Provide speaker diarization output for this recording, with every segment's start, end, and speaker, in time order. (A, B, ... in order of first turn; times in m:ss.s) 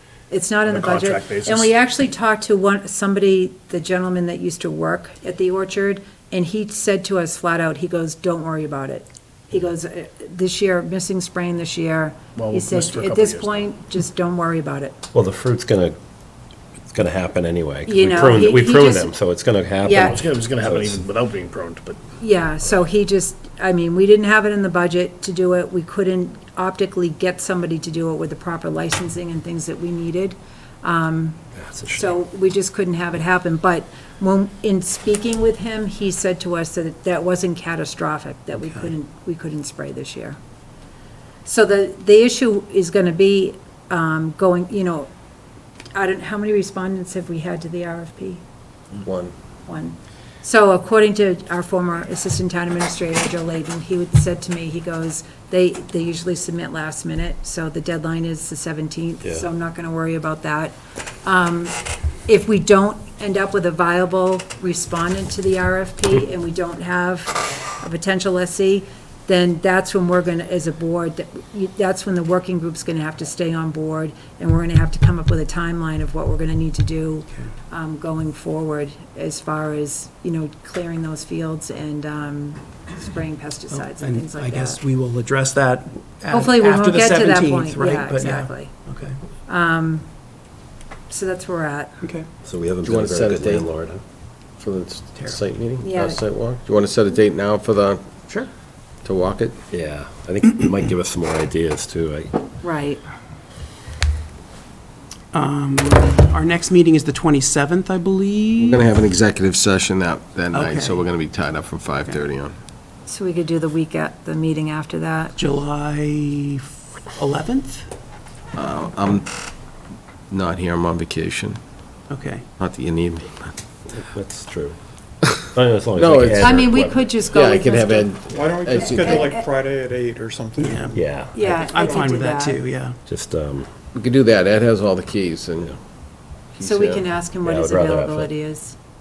0:00.3-0:15.0 A
0:00.6-0:01.7 B
0:12.4-0:13.6 B
0:15.1-0:16.0 C
0:16.9-0:21.0 C
0:17.8-0:19.1 A
0:19.8-0:20.2 A
0:20.0-0:22.0 B
0:22.2-0:31.4 A
0:31.6-0:32.1 C
0:31.9-0:40.4 A
0:41.4-0:45.1 A
0:45.9-0:48.4 A
0:49.0-0:49.3 D
0:49.6-1:24.8 A
1:23.7-1:29.2 E
1:26.3-1:28.7 A
1:29.5-1:30.1 A
1:31.1-1:31.9 A
1:32.4-1:34.0 C
1:32.8-1:33.7 D
1:34.6-1:38.0 D
1:35.8-1:36.2 A
1:39.0-1:39.6 D
1:39.7-1:42.3 C
1:42.6-1:43.0 A
1:45.3-1:48.8 E
1:48.6-1:52.5 D
1:50.5-1:51.0 E
1:53.1-1:55.4 A
1:55.4-1:57.9 E
1:58.5-1:59.2 D
2:00.3-2:01.6 D
2:02.1-2:02.4 E
2:02.6-2:03.5 D
2:03.9-2:04.8 C
2:05.5-2:07.1 C
2:05.9-2:06.7 D
2:06.4-2:08.2 A
2:07.3-2:09.3 D
2:08.3-2:11.9 F
2:08.8-2:09.4 A
2:10.6-2:13.0 E
2:10.9-2:11.3 C
2:11.3-2:12.6 A
2:13.1-2:13.7 C
2:13.9-2:15.7 D
2:16.6-2:17.0 D
2:16.6-2:18.7 A
2:17.4-2:18.3 C